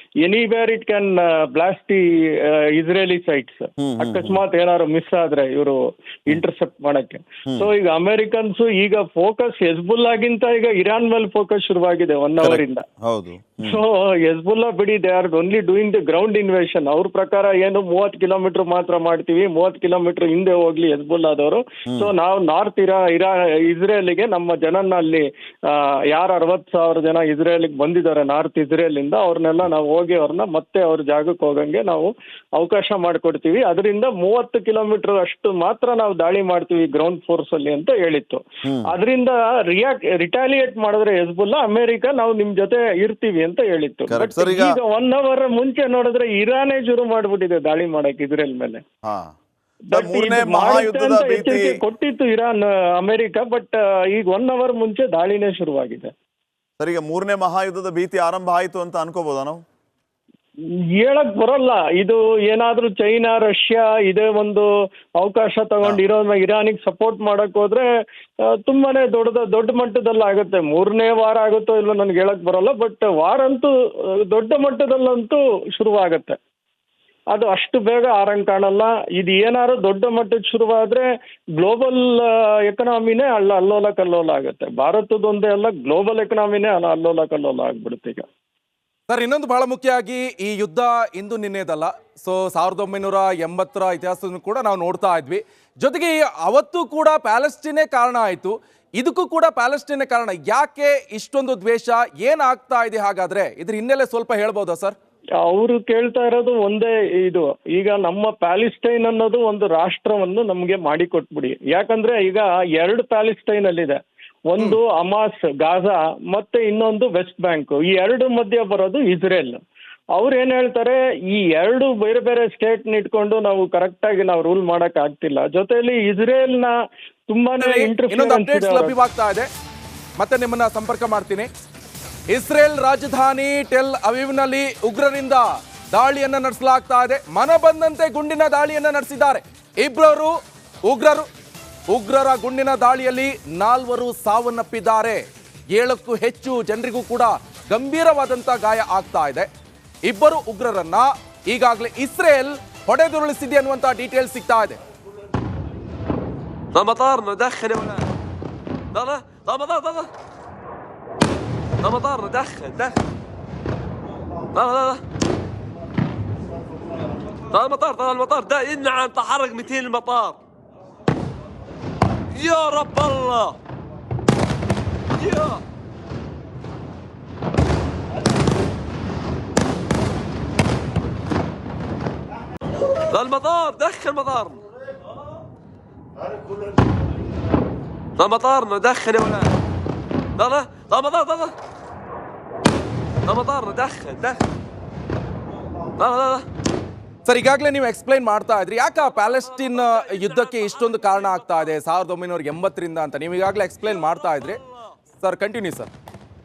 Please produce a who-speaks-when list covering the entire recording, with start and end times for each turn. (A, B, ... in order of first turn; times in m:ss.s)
0:00.2-0:12.8 A
0:03.8-0:04.4 B
0:12.4-0:13.8 B
0:13.6-0:48.8 A
0:38.6-0:38.9 B
0:44.1-0:44.7 B
0:49.0-0:49.3 B
0:49.9-0:56.1 A
0:49.9-0:51.8 B
0:56.8-0:59.6 B
1:01.0-1:04.7 A
1:05.2-1:07.8 A
1:08.5-1:13.7 A
1:14.3-1:16.4 A
1:17.3-1:28.3 A
1:29.1-1:45.0 C
1:45.4-1:59.6 A
2:00.2-2:06.7 A
2:07.3-2:09.0 A
2:07.6-2:09.5 C
2:10.2-2:11.5 C
2:12.3-2:20.3 C
2:20.9-2:21.3 C
2:21.9-2:25.2 C
2:25.8-2:29.5 C
2:30.1-2:34.8 C
2:36.7-2:38.1 D
2:38.9-2:40.1 D
2:41.8-2:43.0 D
2:44.5-2:45.0 D
2:47.5-2:50.4 D
2:52.3-2:53.6 D
2:55.2-2:55.6 D
3:02.9-3:04.6 D
3:08.2-3:09.5 D
3:10.4-3:11.6 D
3:13.3-3:14.4 D
3:16.0-3:16.5 D
3:17.2-3:24.6 C
3:19.3-3:21.7 D
3:24.0-3:24.6 D
3:25.1-3:25.9 C